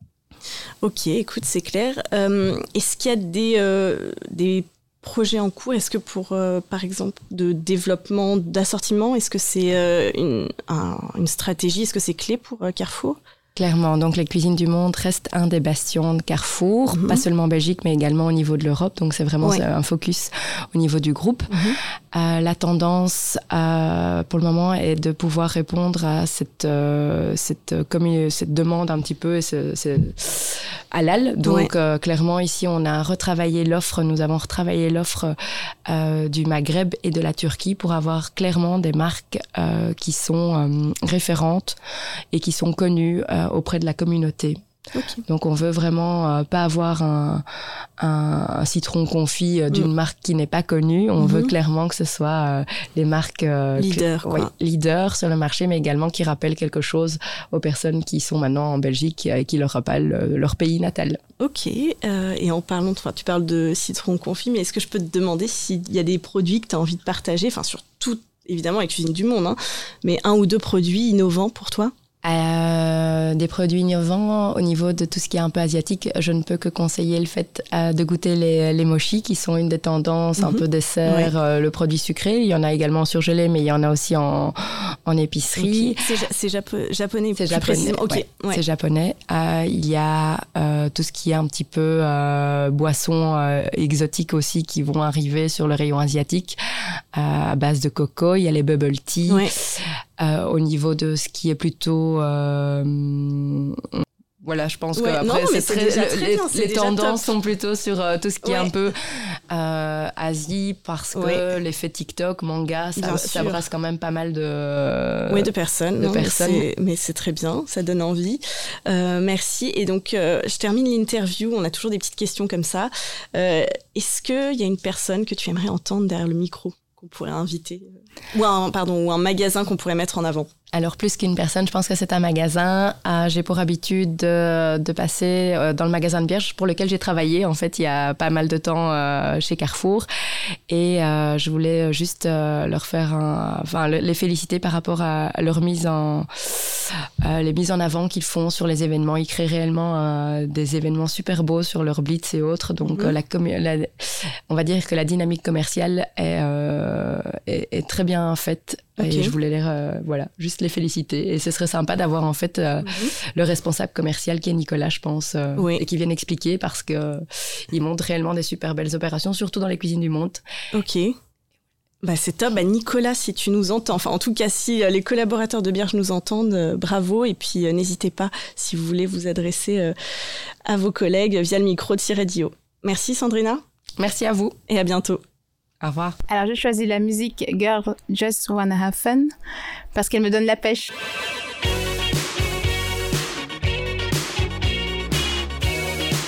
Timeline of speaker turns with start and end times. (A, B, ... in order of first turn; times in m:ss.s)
0:00.8-0:13.2 A
0:13.6-0:35.4 B
0:16.9-0:17.2 A
0:31.4-0:31.7 A
0:35.9-0:41.8 B
0:42.3-0:44.6 B
0:45.0-0:45.2 A
0:45.3-0:47.4 B
0:48.0-1:01.2 B
0:51.2-0:51.5 A
0:53.8-0:54.5 A
1:01.4-1:11.9 A
1:12.2-1:26.1 B
1:20.4-1:21.3 A
1:25.6-1:28.6 A
1:27.4-1:36.6 B
1:37.1-1:43.9 B
1:44.4-1:56.7 B
1:45.0-1:47.3 A
1:48.4-1:48.7 A
1:51.2-1:51.4 A
1:53.0-1:53.6 A
1:55.3-2:10.5 A
2:10.7-2:20.1 B
2:20.7-2:50.4 B
2:32.9-2:33.2 A
2:39.0-2:39.3 A
2:42.8-2:43.1 A
2:45.6-2:45.8 A
2:50.7-2:51.2 A
2:52.0-3:00.0 A
3:00.7-3:03.6 A
3:04.0-3:04.6 B
3:04.7-3:05.2 A
3:05.8-3:06.2 B
3:06.3-3:09.4 C
3:09.9-3:10.9 C